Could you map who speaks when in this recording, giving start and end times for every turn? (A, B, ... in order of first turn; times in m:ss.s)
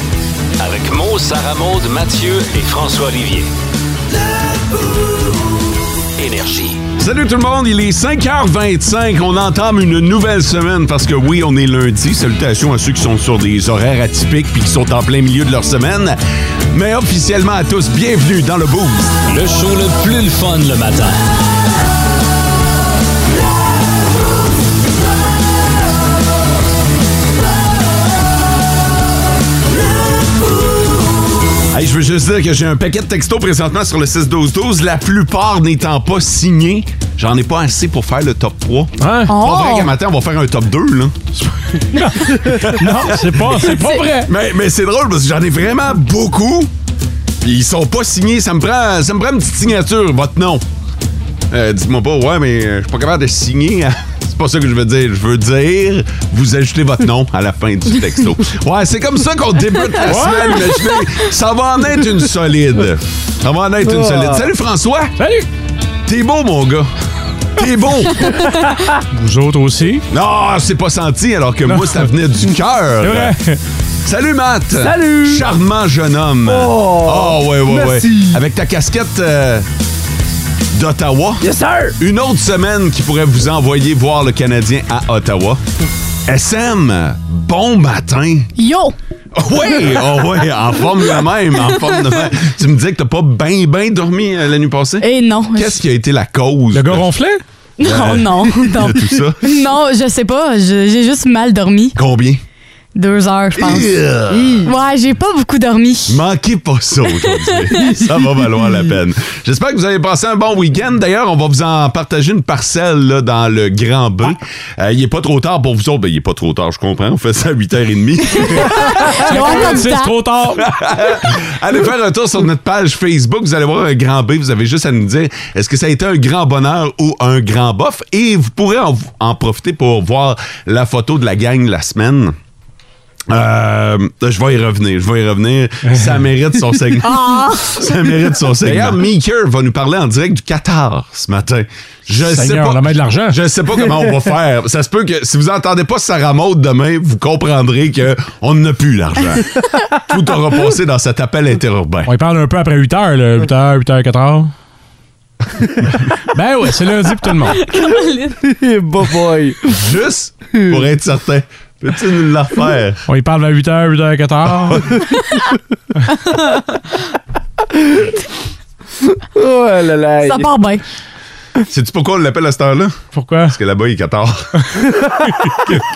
0:00.6-0:03.5 A
0:06.2-0:06.8 A
0:07.0-0:16.2 B
0:16.7-0:19.2 B
0:19.3-0:21.2 A
0:31.7-0:41.2 B
0:39.0-0:39.3 C
0:39.3-0:39.9 D
0:42.0-0:44.3 C
0:42.4-0:46.7 B
0:47.4-0:50.6 B
0:51.5-1:05.2 B
1:00.0-1:00.7 C
1:03.8-1:04.5 E
1:05.2-1:05.5 C
1:06.0-1:06.9 B
1:07.6-1:08.6 B
1:09.1-1:10.0 C
1:10.1-1:13.3 B
1:11.6-1:12.1 C
1:13.0-1:13.6 C
1:14.0-1:19.7 B
1:14.8-1:15.5 E
1:16.4-1:18.4 E
1:20.7-1:25.6 B
1:21.4-1:21.9 E
1:26.3-1:28.5 B
1:28.6-1:28.9 D
1:29.3-1:37.1 B
1:35.0-1:35.8 D
1:36.7-1:37.4 C
1:37.8-1:41.9 D
1:37.8-1:39.4 B
1:42.0-1:42.4 B
1:43.0-1:43.9 D
1:43.6-1:44.6 B
1:44.3-1:44.7 E
1:44.6-1:46.2 D
1:46.1-1:59.7 B
1:58.5-2:00.1 D
1:59.2-2:00.7 C
2:00.6-2:12.4 B
2:13.3-2:17.2 B
2:17.0-2:17.8 D
2:17.7-2:32.1 B
2:22.2-2:23.4 C
2:32.0-2:34.5 C
2:36.3-2:37.7 C
2:37.7-2:38.3 D
2:38.4-2:39.7 E
2:39.7-2:43.0 B
2:43.1-2:44.9 C
2:47.8-2:48.0 E
2:49.3-2:50.5 E
2:50.2-2:50.8 D
2:51.7-2:54.6 B
2:53.1-2:53.5 C